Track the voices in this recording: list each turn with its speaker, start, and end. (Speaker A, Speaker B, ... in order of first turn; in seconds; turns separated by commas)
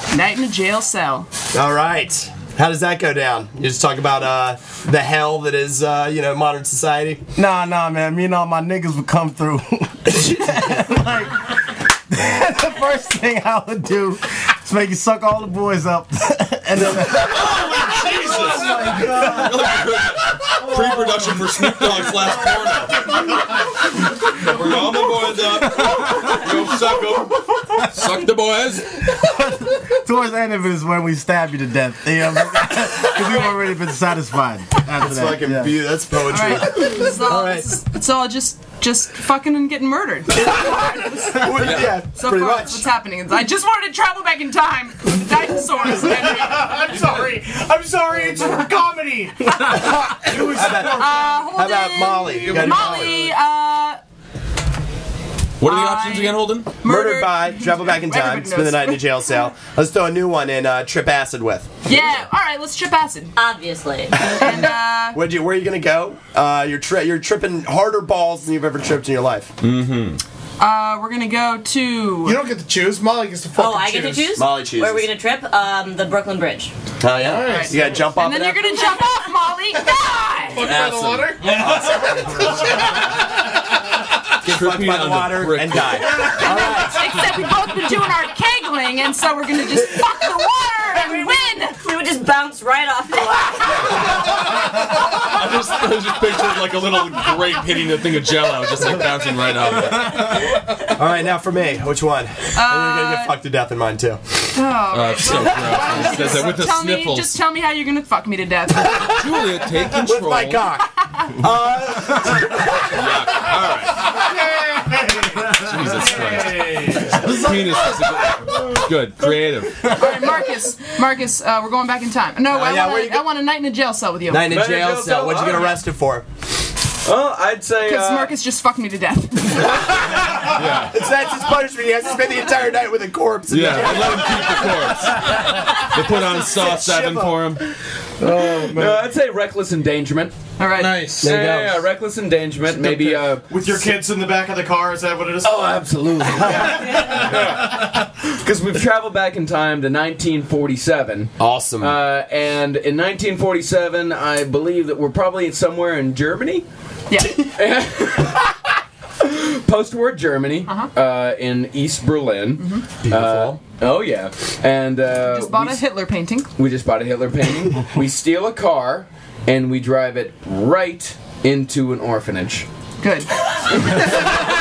Speaker A: 0.1-1.3, Speaker B: 1.5-7.2, Speaker C: 7.3-22.3, Speaker D: 16.8-23.3, Speaker D: 24.2-29.2, Speaker C: 25.6-26.7, Speaker C: 29.2-35.8, Speaker B: 35.0-37.8, Speaker A: 36.2-47.1, Speaker B: 40.4-42.8, Speaker D: 41.6-42.0, Speaker E: 46.3-51.3, Speaker B: 49.7-53.2, Speaker A: 50.8-54.0, Speaker E: 52.4-53.1, Speaker D: 55.6-56.7, Speaker A: 55.6-59.4, Speaker B: 56.8-61.9, Speaker A: 61.9-63.3, Speaker F: 63.4-64.2, Speaker A: 64.2-65.2, Speaker B: 64.2-69.5, Speaker D: 69.6-70.2, Speaker A: 70.6-72.5, Speaker G: 72.2-74.4, Speaker F: 73.5-76.7, Speaker B: 74.3-75.1, Speaker B: 77.0-78.9, Speaker G: 77.2-78.0, Speaker A: 77.5-80.7, Speaker G: 80.5-83.2, Speaker D: 80.6-81.5, Speaker E: 81.4-82.5, Speaker B: 84.4-87.2, Speaker D: 84.4-86.2, Speaker A: 86.0-91.8, Speaker F: 90.9-94.3, Speaker D: 93.9-100.6, Speaker B: 100.9-104.2, Speaker A: 102.5-103.3, Speaker A: 104.5-108.9, Speaker D: 104.9-107.4, Speaker B: 108.8-109.1, Speaker D: 108.9-110.7, Speaker B: 109.9-113.1, Speaker D: 112.9-114.2, Speaker E: 114.1-117.2, Speaker D: 115.4-120.0, Speaker C: 117.1-118.2, Speaker A: 119.8-124.5, Speaker B: 122.5-123.3, Speaker B: 124.3-126.2, Speaker H: 124.4-125.8, Speaker H: 127.0-128.3, Speaker A: 127.8-129.9, Speaker B: 129.6-137.6, Speaker D: 130.5-131.0, Speaker D: 133.5-137.6, Speaker B: 138.2-138.7, Speaker H: 138.7-140.3, Speaker A: 140.6-141.1, Speaker G: 140.7-141.3, Speaker B: 141.2-141.9, Speaker H: 141.2-143.6, Speaker E: 142.8-145.7, Speaker H: 145.4-147.9, Speaker B: 146.4-147.2, Speaker E: 146.4-147.5, Speaker H: 148.4-156.6, Speaker B: 151.4-152.0, Speaker A: 157.1-157.4, Speaker H: 157.5-158.6, Speaker H: 159.2-165.8, Speaker A: 160.7-160.9, Speaker A: 162.6-162.9, Speaker B: 163.0-163.6, Speaker A: 165.1-166.5, Speaker H: 166.6-172.7, Speaker A: 173.0-173.5, Speaker G: 174.1-174.4